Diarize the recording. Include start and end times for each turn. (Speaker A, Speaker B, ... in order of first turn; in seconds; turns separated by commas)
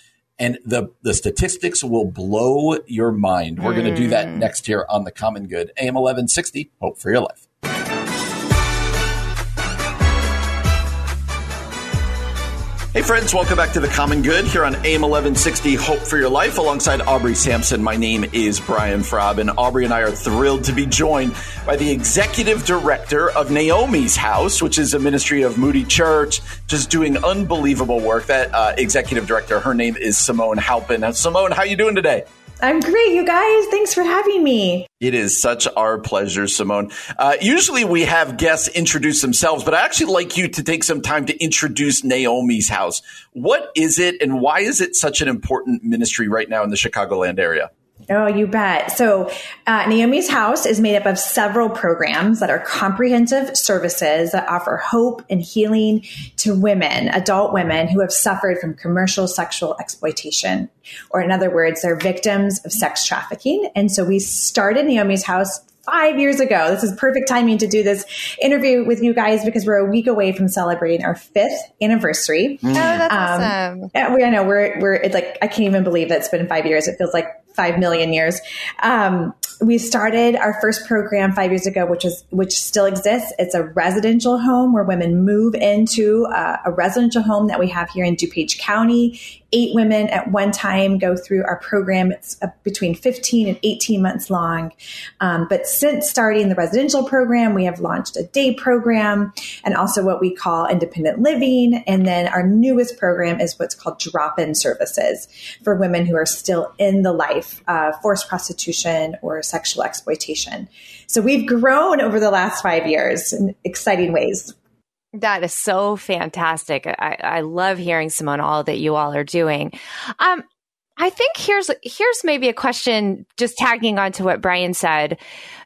Speaker A: 0.4-7.4, Speaker B: 3.6-4.5, Speaker A: 12.9-32.2, Speaker C: 32.6-34.9, Speaker A: 35.0-47.7, Speaker C: 48.1-114.5, Speaker A: 72.6-73.0, Speaker B: 72.7-73.9, Speaker B: 115.1-120.4, Speaker B: 121.0-125.2